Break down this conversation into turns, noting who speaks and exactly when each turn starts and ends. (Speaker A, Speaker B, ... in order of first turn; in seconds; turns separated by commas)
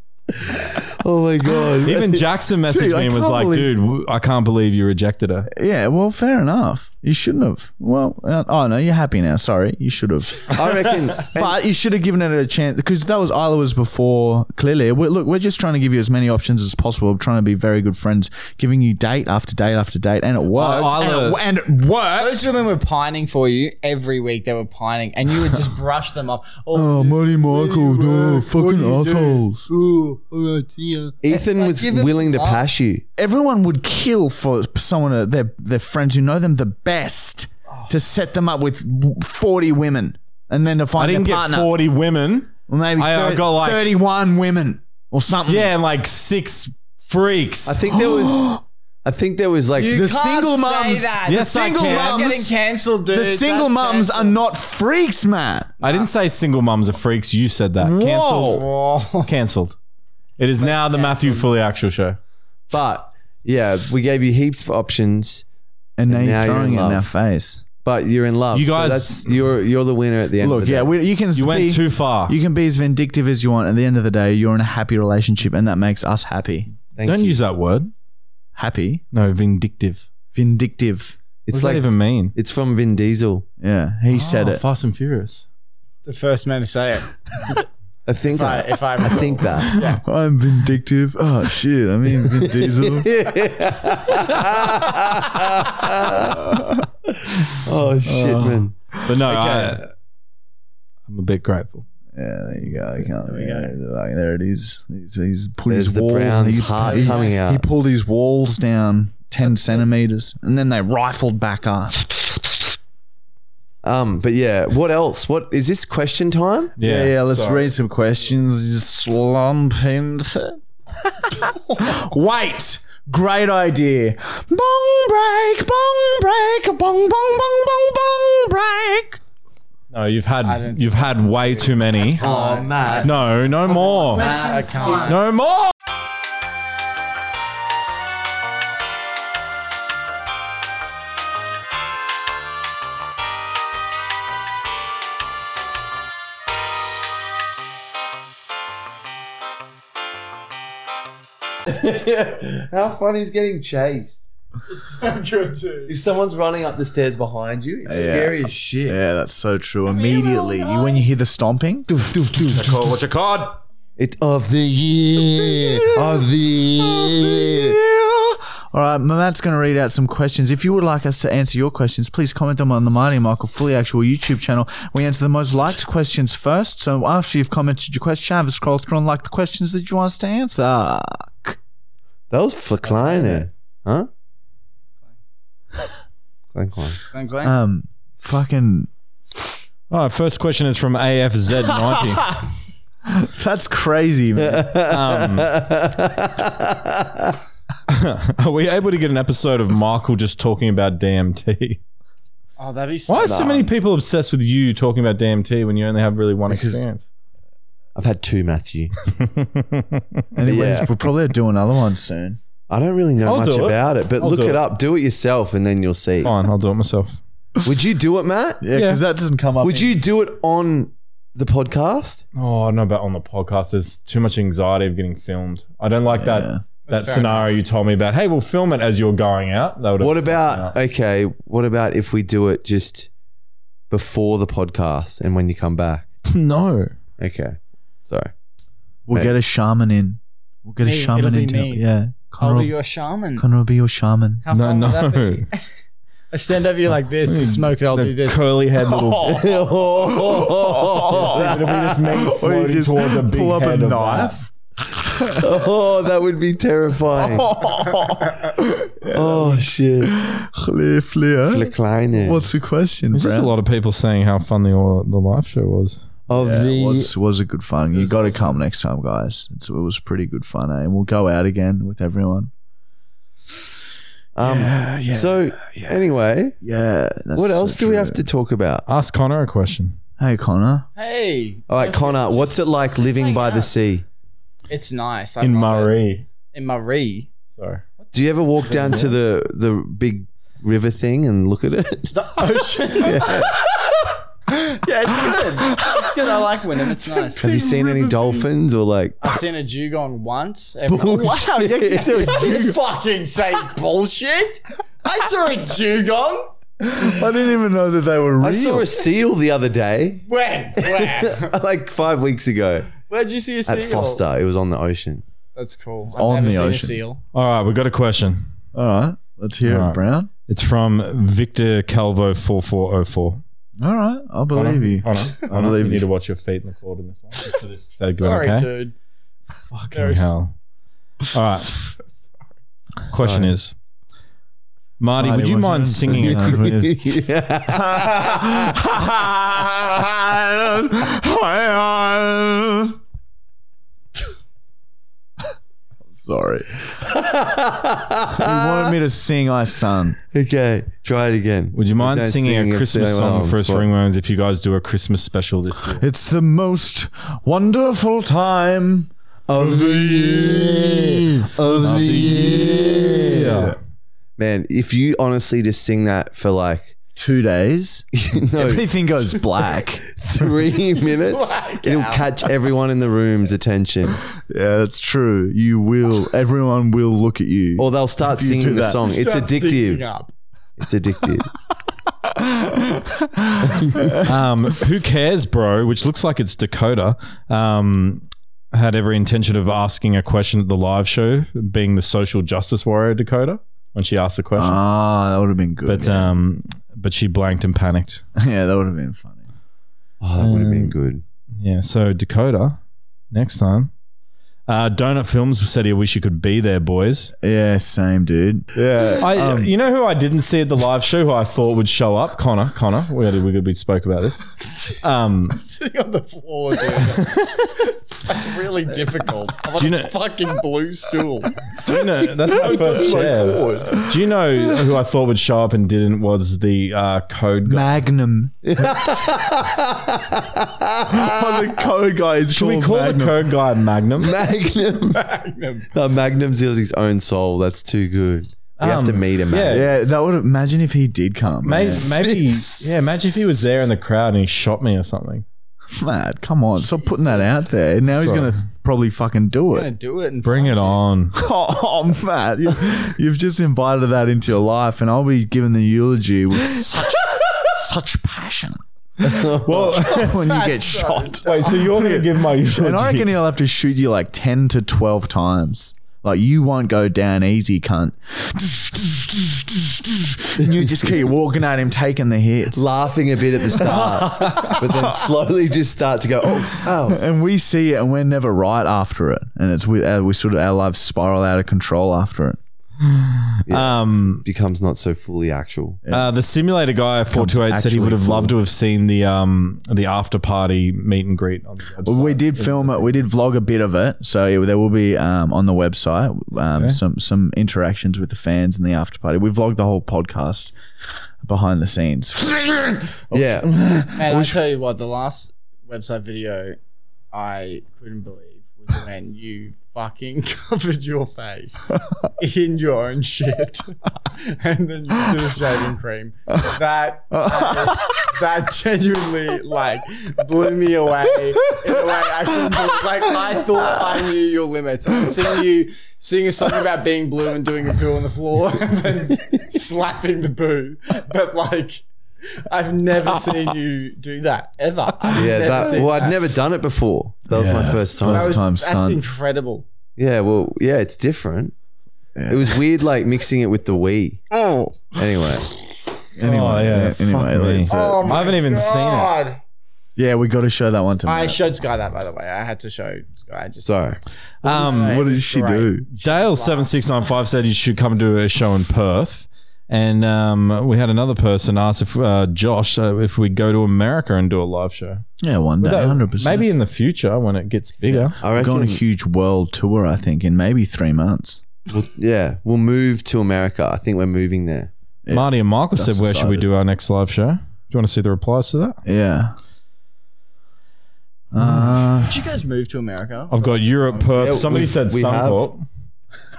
Speaker A: 0.5-2.3, Speaker B: 1.8-5.5, Speaker C: 2.7-3.7, Speaker C: 5.5-22.5, Speaker A: 10.5-11.6, Speaker B: 20.5-21.4, Speaker D: 22.2-32.6, Speaker C: 26.7-29.7, Speaker A: 31.2-33.0, Speaker C: 33.2-41.7, Speaker B: 41.0-43.9, Speaker C: 42.7-45.7, Speaker B: 45.5-47.8, Speaker A: 47.7-50.1, Speaker C: 47.9-48.6, Speaker D: 49.8-54.4, Speaker C: 49.9-52.5, Speaker B: 51.3-52.4, Speaker C: 53.0-55.7, Speaker B: 55.8-58.6, Speaker D: 55.8-56.1, Speaker A: 58.1-58.6, Speaker D: 58.2-59.3, Speaker B: 59.3-59.8, Speaker B: 60.4-62.2, Speaker D: 60.6-61.5, Speaker A: 62.7-65.5, Speaker C: 66.0-67.6, Speaker A: 66.1-67.1, Speaker A: 67.8-70.9, Speaker B: 68.5-69.5, Speaker C: 70.4-76.7, Speaker B: 71.3-72.4, Speaker A: 77.0-77.4, Speaker B: 77.0-77.9, Speaker C: 78.5-79.0, Speaker B: 79.1-80.1, Speaker C: 80.3-81.2, Speaker A: 81.5-83.5, Speaker B: 81.5-82.3, Speaker C: 83.6-84.6, Speaker B: 84.1-85.5, Speaker D: 86.1-87.6, Speaker A: 88.1-89.8, Speaker D: 88.3-90.0, Speaker C: 90.0-93.1, Speaker A: 92.4-96.5, Speaker C: 96.5-96.8, Speaker A: 97.4-98.7, Speaker B: 98.1-99.9, Speaker C: 99.3-99.6, Speaker B: 101.1-101.8, Speaker C: 102.1-112.5, Speaker D: 103.1-103.7, Speaker A: 105.7-107.7, Speaker D: 106.8-107.4, Speaker A: 113.8-116.8, Speaker B: 116.8-117.7, Speaker C: 116.8-129.2, Speaker B: 129.9-132.2, Speaker D: 130.4-133.1, Speaker A: 132.2-133.1, Speaker B: 133.0-134.3, Speaker D: 134.1-135.2, Speaker C: 134.1-135.1, Speaker B: 134.9-135.7, Speaker A: 151.7-154.2, Speaker D: 154.7-155.9, Speaker A: 155.9-159.0, Speaker C: 157.9-162.1, Speaker D: 159.9-161.0, Speaker A: 161.9-162.6, Speaker B: 162.5-163.6, Speaker A: 164.0-167.8, Speaker C: 165.7-166.2, Speaker C: 166.8-181.6, Speaker A: 182.3-184.1, Speaker D: 182.9-183.3, Speaker A: 186.5-187.0, Speaker D: 187.1-187.5, Speaker C: 187.4-188.9, Speaker B: 189.9-192.4, Speaker C: 193.1-194.9, Speaker A: 194.4-197.4, Speaker B: 194.9-195.5, Speaker B: 197.9-201.8, Speaker D: 202.6-203.7, Speaker B: 203.1-207.1, Speaker A: 203.3-203.5, Speaker C: 206.5-206.9, Speaker A: 207.9-208.9, Speaker B: 209.1-210.2, Speaker C: 210.3-212.4, Speaker A: 210.5-210.9, Speaker A: 212.7-216.3, Speaker B: 213.2-214.6, Speaker B: 216.2-217.2, Speaker A: 217.6-218.7, Speaker C: 218.6-220.0, Speaker B: 218.7-219.0, Speaker A: 219.6-222.2, Speaker B: 222.3-230.7, Speaker C: 226.1-226.6, Speaker D: 226.9-227.6, Speaker A: 230.0-233.1, Speaker A: 233.9-236.1, Speaker B: 236.3-236.9, Speaker A: 237.2-238.3, Speaker C: 239.1-242.8, Speaker D: 240.8-241.8, Speaker D: 242.4-243.5, Speaker C: 243.4-244.4, Speaker D: 244.4-245.6, Speaker B: 244.5-245.5, Speaker D: 246.3-248.4, Speaker B: 247.2-249.6, Speaker C: 248.9-251.5, Speaker A: 249.2-252.1, Speaker B: 251.1-254.4, Speaker C: 252.1-255.5, Speaker A: 255.4-257.5, Speaker C: 257.2-263.5, Speaker A: 259.1-260.2, Speaker A: 261.5-262.5, Speaker B: 263.1-266.0, Speaker A: 266.3-267.1, Speaker C: 266.3-272.5, Speaker D: 267.9-268.6, Speaker A: 274.4-276.6, Speaker C: 274.4-276.1, Speaker C: 276.6-278.3, Speaker A: 277.3-278.9, Speaker B: 278.9-280.0, Speaker C: 280.2-280.9, Speaker D: 281.0-283.7, Speaker A: 281.7-284.1, Speaker D: 284.7-286.0, Speaker B: 285.4-286.2, Speaker D: 286.5-287.3, Speaker B: 287.6-287.8, Speaker A: 288.1-292.4, Speaker B: 288.7-289.1, Speaker D: 292.1-293.6, Speaker A: 293.0-293.6, Speaker D: 294.5-297.7, Speaker C: 295.3-296.2, Speaker C: 297.1-298.4, Speaker A: 297.4-299.3, Speaker D: 299.2-301.4, Speaker A: 300.9-302.3, Speaker C: 300.9-302.8, Speaker D: 301.9-306.5, Speaker C: 306.8-308.9, Speaker A: 308.4-310.2, Speaker D: 310.3-311.6, Speaker A: 310.8-312.9, Speaker D: 313.1-314.2, Speaker A: 313.7-315.2, Speaker D: 315.6-317.2, Speaker C: 316.1-317.0, Speaker B: 317.3-318.4, Speaker C: 318.7-320.3, Speaker B: 319.7-323.4, Speaker C: 323.8-326.1, Speaker B: 324.5-328.7, Speaker D: 328.2-328.9, Speaker B: 329.7-330.5, Speaker D: 329.9-330.3, Speaker B: 331.3-331.8, Speaker D: 331.9-332.3, Speaker B: 333.1-333.8, Speaker A: 333.1-333.5, Speaker B: 335.0-336.6, Speaker C: 335.2-337.2, Speaker A: 336.1-338.5, Speaker C: 337.7-343.0, Speaker C: 346.1-346.7, Speaker A: 347.0-348.9, Speaker C: 348.3-350.2, Speaker A: 350.3-353.9, Speaker B: 351.7-356.1, Speaker C: 356.0-363.8, Speaker A: 359.5-363.5, Speaker B: 363.3-363.8, Speaker A: 364.4-366.9, Speaker C: 367.2-370.1, Speaker A: 368.1-368.9, Speaker A: 370.1-374.2, Speaker D: 370.9-372.5, Speaker C: 374.5-379.0, Speaker A: 377.8-380.1, Speaker D: 379.0-380.3, Speaker A: 380.8-381.5, Speaker C: 382.2-384.3, Speaker A: 383.6-384.2, Speaker B: 384.2-394.8, Speaker C: 394.6-396.3, Speaker B: 395.9-398.2, Speaker C: 398.4-399.4, Speaker A: 400.2-401.2, Speaker B: 400.4-400.9, Speaker B: 401.6-402.8, Speaker B: 403.3-403.9, Speaker B: 404.7-407.3, Speaker C: 407.4-409.7, Speaker B: 409.2-415.6, Speaker D: 415.6-421.6, Speaker B: 417.2-417.6, Speaker B: 419.8-420.1, Speaker B: 421.9-427.9, Speaker C: 422.4-424.2, Speaker D: 422.5-423.9, Speaker C: 427.6-429.2, Speaker A: 428.6-431.4, Speaker C: 431.1-433.5, Speaker B: 432.5-434.4, Speaker A: 434.2-435.2, Speaker D: 435.1-435.9, Speaker A: 435.9-439.9, Speaker B: 438.8-439.9, Speaker C: 439.7-442.1, Speaker B: 441.6-445.4, Speaker A: 441.9-443.3, Speaker C: 445.9-449.9, Speaker D: 446.9-447.5, Speaker B: 448.1-448.5, Speaker D: 449.7-451.0, Speaker B: 450.4-451.4, Speaker C: 451.4-458.8, Speaker A: 459.2-460.0, Speaker B: 459.2-460.7, Speaker C: 460.0-472.9, Speaker D: 460.2-461.9, Speaker B: 461.5-463.4, Speaker A: 472.7-477.2, Speaker C: 473.9-475.1, Speaker B: 474.2-474.8, Speaker C: 476.9-482.6, Speaker B: 483.0-484.4, Speaker A: 483.7-486.0, Speaker C: 486.1-486.3, Speaker B: 486.1-493.2, Speaker C: 487.3-488.6, Speaker C: 492.0-500.8, Speaker C: 501.4-504.6, Speaker A: 503.3-503.7, Speaker D: 504.2-506.8, Speaker D: 507.3-532.0, Speaker C: 517.3-518.3, Speaker C: 521.7-524.2, Speaker D: 532.7-536.4, Speaker A: 535.3-538.6, Speaker C: 537.5-539.2, Speaker D: 538.2-539.9, Speaker A: 540.2-541.7, Speaker C: 542.4-542.8, Speaker A: 542.5-544.4, Speaker C: 544.5-545.2, Speaker A: 545.1-545.7, Speaker C: 546.4-548.3, Speaker B: 546.4-549.3, Speaker D: 547.9-549.6, Speaker C: 550.2-551.6, Speaker D: 551.3-553.9, Speaker A: 553.8-554.2, Speaker B: 554.6-555.2, Speaker C: 554.6-556.1, Speaker D: 554.7-556.9, Speaker B: 556.2-565.3, Speaker C: 565.4-566.7, Speaker B: 565.8-568.4, Speaker C: 568.1-571.6, Speaker A: 568.4-569.0, Speaker A: 571.9-574.9, Speaker C: 575.2-576.7, Speaker B: 575.3-579.0, Speaker C: 579.0-579.5, Speaker C: 581.5-582.4, Speaker D: 582.1-584.6, Speaker B: 583.5-585.9, Speaker A: 584.4-585.6